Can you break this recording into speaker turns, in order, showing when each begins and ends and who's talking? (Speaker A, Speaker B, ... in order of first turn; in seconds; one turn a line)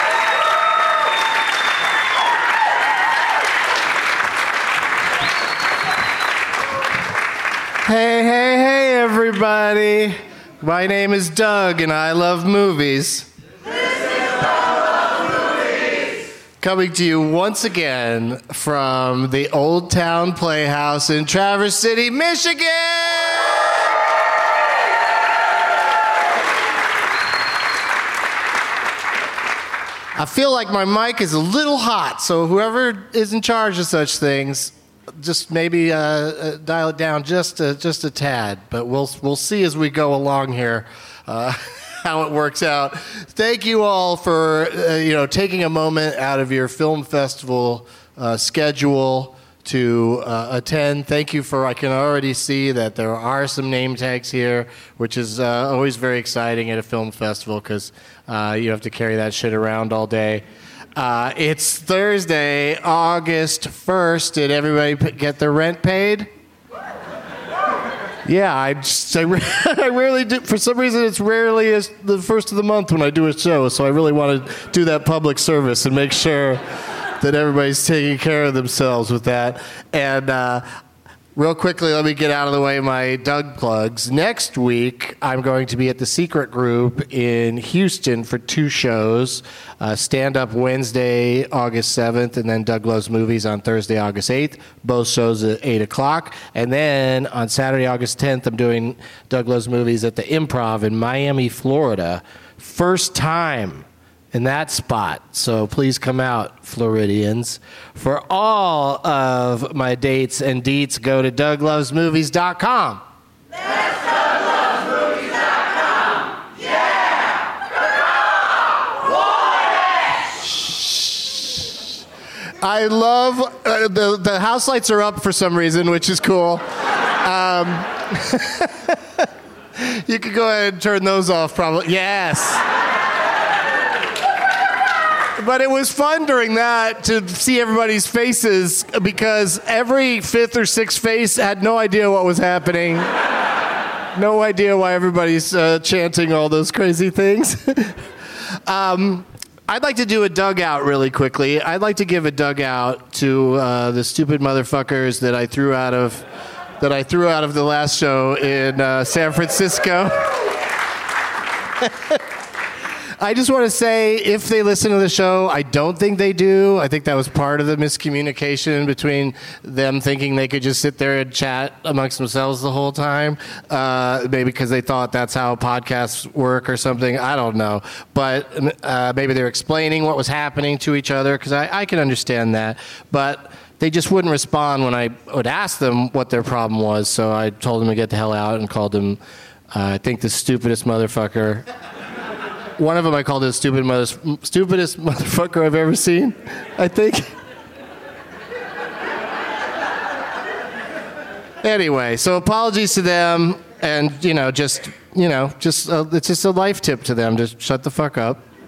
Speaker A: 7.8-13.3
Speaker A: 16.6-23.6
Speaker A: 30.2-60.4
Speaker A: 61.0-66.3
Speaker A: 68.3-76.6
Speaker A: 77.2-80.7
Speaker A: 81.3-113.0
Speaker A: 120.4-121.8
Speaker A: 122.6-126.6
Speaker A: 127.2-132.6
Speaker A: 135.4-143.1
Speaker A: 144.2-148.0
Speaker A: 148.7-156.3
Speaker A: 156.8-160.3
Speaker A: 161.8-162.2
Speaker A: 163.2-189.2
Speaker A: 189.7-191.7
Speaker A: 192.8-197.3
Speaker A: 201.6-208.4